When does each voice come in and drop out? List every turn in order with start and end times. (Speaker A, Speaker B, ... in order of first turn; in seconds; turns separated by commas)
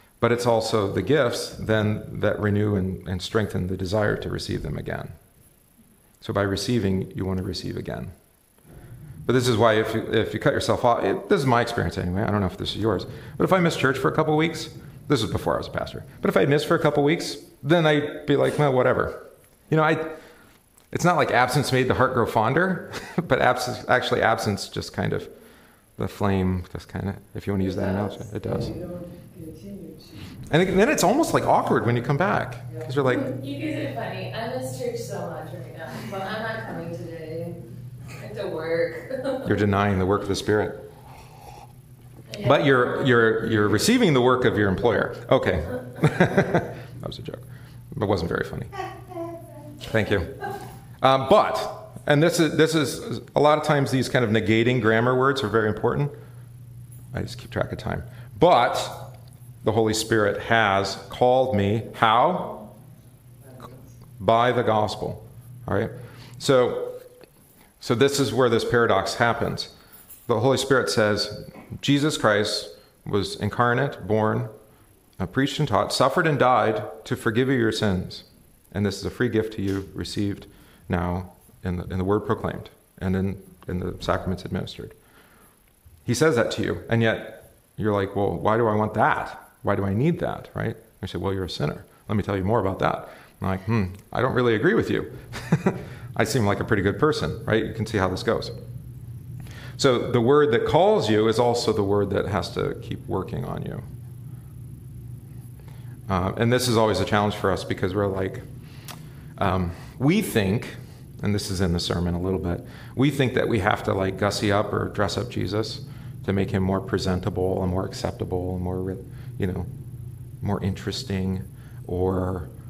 Speaker A: 0.2-5.2, Speaker A: 6.2-8.1, Speaker A: 9.3-20.2, Speaker A: 20.9-25.3, Speaker A: 26.0-28.8, Speaker B: 27.6-30.4, Speaker A: 30.5-33.3, Speaker C: 33.1-37.6, Speaker C: 38.1-39.5, Speaker A: 39.4-40.8, Speaker C: 42.3-43.1, Speaker A: 42.4-48.7, Speaker A: 49.8-50.4, Speaker A: 51.0-56.2, Speaker A: 57.1-59.1, Speaker A: 59.6-62.6, Speaker B: 63.5-63.8, Speaker A: 64.2-67.0, Speaker A: 67.8-69.7, Speaker A: 70.3-74.5, Speaker A: 75.2-85.0, Speaker A: 86.1-98.6, Speaker A: 99.8-103.9, Speaker A: 106.1-108.5, Speaker A: 109.4-119.7, Speaker A: 120.4-122.5